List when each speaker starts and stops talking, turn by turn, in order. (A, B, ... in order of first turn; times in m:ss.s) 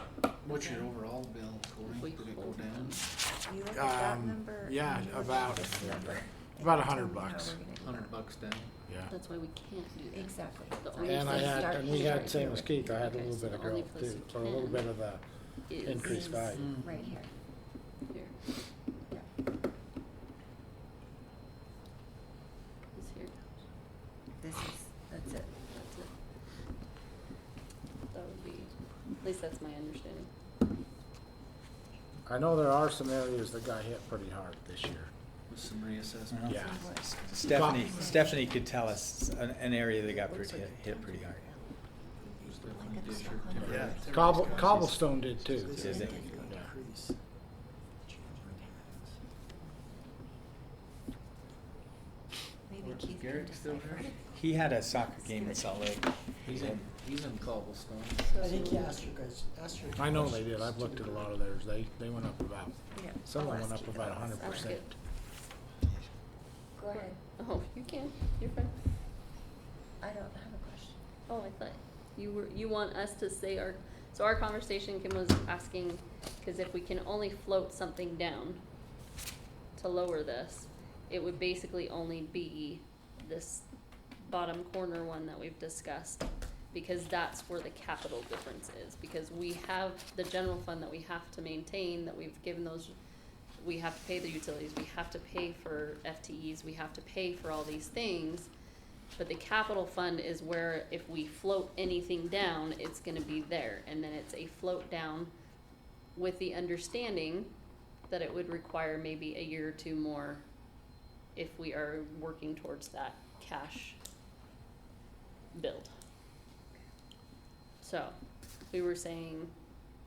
0:00.4-0:02.9 A
0:00.5-0:00.8 B
0:01.9-0:03.0 C
0:03.3-0:08.2 B
0:03.7-0:07.6 D
0:07.9-0:08.7 A
0:09.1-0:14.9 C
0:10.1-0:12.6 B
0:11.0-0:16.8 D
0:15.7-0:16.2 C
0:16.0-0:17.3 B
0:18.1-0:18.4 C
0:22.9-0:23.3 C
0:24.4-0:25.5 B
0:25.7-0:26.1 C
0:28.1-0:28.7 C
0:29.2-0:30.3 C
0:32.2-0:35.1 D
0:35.5-0:36.4 A
0:36.3-0:41.5 E
0:36.5-0:36.8 D
0:36.5-0:38.7 B
0:37.4-0:37.9 D
0:40.0-0:41.7 F
0:42.3-0:44.7 B
0:42.6-0:44.8 A
0:43.6-0:44.1 F
0:44.1-0:45.8 D
0:45.5-0:47.1 F
0:45.7-0:46.2 E
0:45.7-0:46.5 B
0:46.4-0:46.7 D
0:52.6-0:54.3 B
0:52.8-0:54.1 A
0:54.2-0:56.8 E
0:55.0-0:56.5 B
0:56.4-0:58.3 A
0:58.2-0:59.2 C
0:58.4-1:01.2 F
0:59.9-1:04.9 D
1:02.9-1:04.7 B
1:04.4-1:04.9 C
1:06.8-1:07.2 B
1:06.9-1:08.7 C
1:10.0-1:11.0 B
1:11.3-1:18.6 C
1:19.8-1:23.6 C
1:24.2-1:32.9 C
1:33.6-1:38.5 C
1:39.2-1:45.3 C
1:46.1-1:47.5 C
1:48.1-1:50.4 C
1:51.3-1:54.0 C
1:55.5-1:55.9 C
1:57.8-1:58.1 C
1:58.7-1:59.5 C